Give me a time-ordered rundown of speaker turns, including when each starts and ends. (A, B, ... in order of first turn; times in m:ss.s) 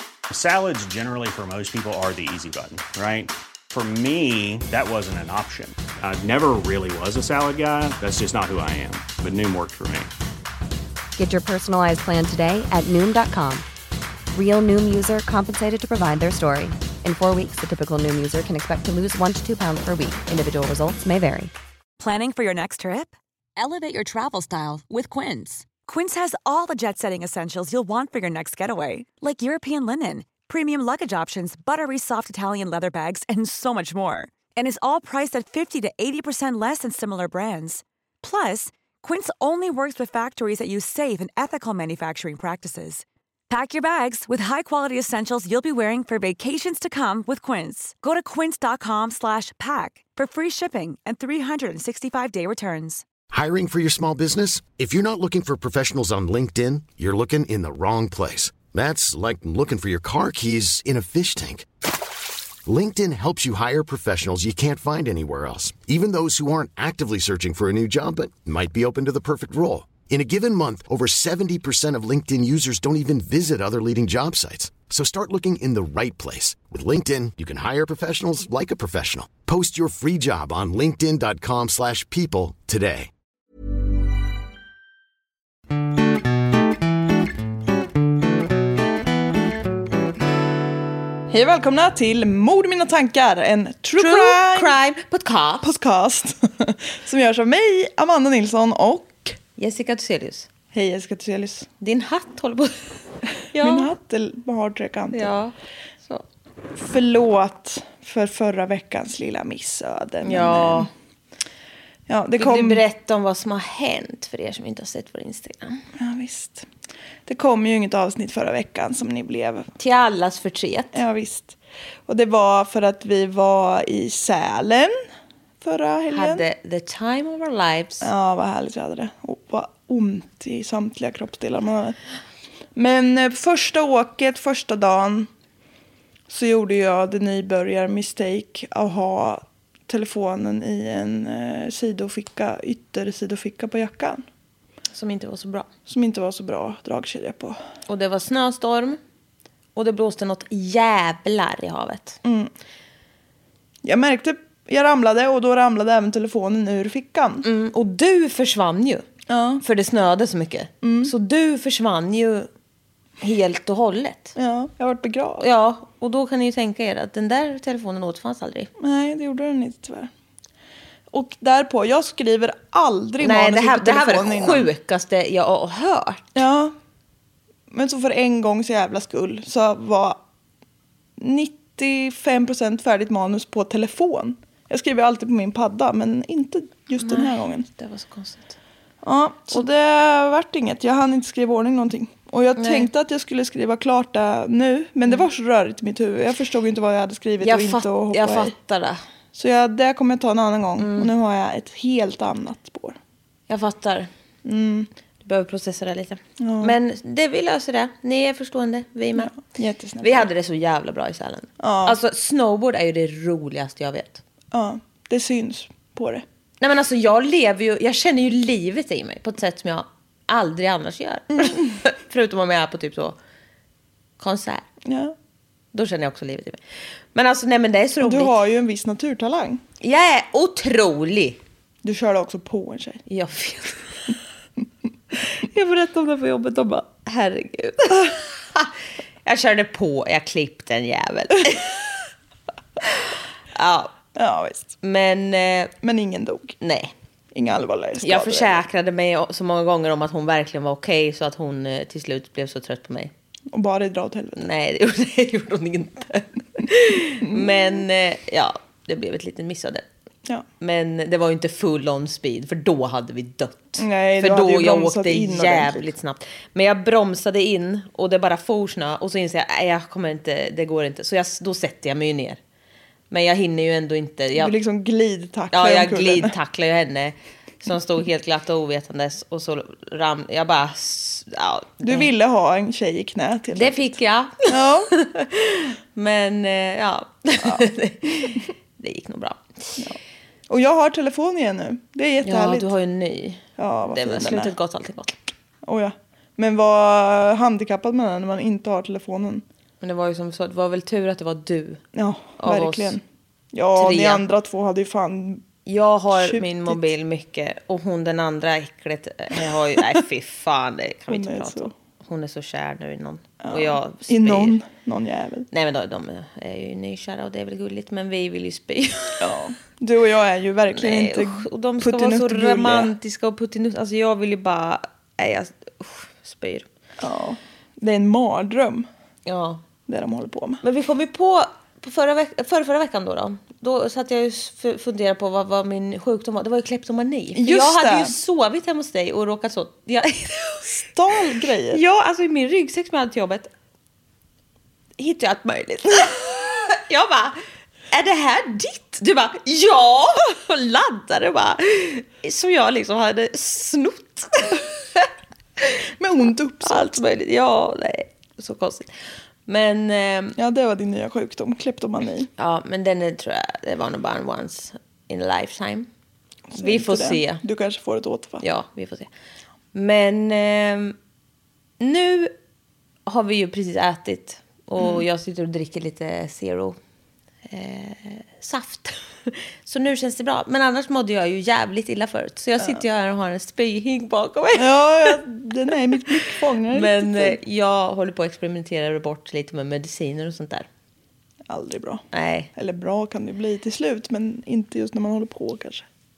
0:00.3-0:10.1 A
0:11.2-0:13.6 B
0:14.3-0:21.5 B
0:22.0-0:53.0 C
0:53.3-1:01.7 D
1:02.6-1:23.1 D
1:31.3-1:34.7 E
1:34.0-1:35.7 F
1:35.6-1:39.4 E
1:39.6-1:40.5 F
1:40.7-1:41.7 E
1:41.8-1:42.7 F
1:43.5-1:43.9 F
1:43.6-1:45.3 E
1:45.1-1:45.5 F
1:46.8-1:50.9 E
1:50.2-1:50.9 F
1:52.1-1:52.8 E
1:52.4-1:55.8 F
1:56.0-1:56.6 E
1:57.2-1:59.7 E
1:59.8-2:01.0 F
2:00.9-2:05.0 E
2:05.6-2:06.4 E
2:06.1-2:08.1 F
2:08.0-2:12.0 E
2:12.7-2:15.3 E
2:16.3-2:24.2 E
2:24.9-2:25.7 F
2:25.9-2:27.6 E
2:27.9-2:29.0 F
2:29.8-2:32.2 F
2:32.2-2:32.5 E
2:33.8-2:37.4 E
2:37.4-2:39.0 F
2:39.3-2:39.6 E
2:39.6-2:42.5 F
2:40.8-2:41.1 E
2:43.2-2:44.3 F
2:44.4-2:45.4 E
2:45.4-2:48.7 F
2:48.8-2:50.1 E
2:51.1-2:54.7 E
2:53.2-2:56.3 F
2:56.4-2:56.7 E
2:57.7-3:00.2 E
3:01.2-3:07.7 E
3:07.0-3:08.5 F
3:09.0-3:18.5 E
3:12.6-3:12.9 F
3:17.4-3:19.0 F
3:19.3-3:23.0 E
3:20.8-3:21.1 F
3:23.5-3:24.1 F
3:24.4-3:24.9 E
3:25.2-3:29.3 F
3:26.4-3:26.8 E
3:29.2-3:30.3 E
3:30.0-3:34.2 F
3:31.6-3:32.0 E
3:34.5-3:36.2 E
3:36.6-3:43.2 F
3:44.2-3:44.6 F
3:44.8-3:45.1 E
3:45.7-3:46.6 F
3:47.1-3:48.3 F
3:48.0-3:49.6 E
3:49.8-3:51.4 F
3:51.8-3:53.0 E
3:53.1-3:54.1 F
3:55.2-3:58.7 F
3:59.2-4:01.8 F
4:03.5-4:03.9 F
4:04.1-4:04.7 E
4:04.8-4:05.7 F
4:05.8-4:06.6 E
4:06.6-4:06.9 F
4:07.3-4:08.6 E
4:08.0-4:13.1 F
4:13.5-4:14.4 E
4:14.4-4:19.8 F
4:17.2-4:17.8 E
4:20.6-4:32.4 F
4:23.8-4:25.9 E
4:33.1-4:34.5 F
4:34.4-4:36.3 E
4:35.5-4:42.1 F
4:41.8-4:43.9 E
4:43.5-4:49.8 F
4:44.5-4:44.9 E
4:50.5-4:52.7 E
4:52.2-4:55.2 F
4:53.6-4:54.5 E
4:55.6-4:59.4 E
4:59.8-5:01.8 F
5:01.9-5:03.0 E
5:02.4-5:03.0 F
5:03.5-5:05.4 E
5:03.7-5:04.2 F
5:05.6-5:14.6 F
5:06.1-5:06.8 E
5:11.1-5:11.7 E
5:13.4-5:15.5 E
5:15.5-5:19.3 F
5:19.2-5:22.9 E
5:20.7-5:26.7 F
5:27.0-5:28.9 E
5:29.2-5:29.6 F
5:29.9-5:30.6 E
5:30.6-5:40.8 F
5:37.4-5:38.1 E
5:40.8-5:41.8 E
5:41.7-5:43.5 F
5:45.0-5:55.1 F
5:56.0-5:57.0 E
5:56.6-5:58.9 F
5:59.4-6:00.4 F
6:00.4-6:02.3 E
6:02.4-6:05.9 F
6:06.5-6:08.4 E
6:06.6-6:07.4 F
6:08.4-6:09.1 F
6:09.7-6:11.0 F
6:11.8-6:12.3 F
6:13.0-6:16.8 F
6:14.8-6:15.0 E
6:17.5-6:25.2 F
6:24.5-6:27.4 E
6:26.7-6:30.7 F
6:31.5-6:32.0 E
6:32.1-6:32.5 F
6:32.5-6:35.8 E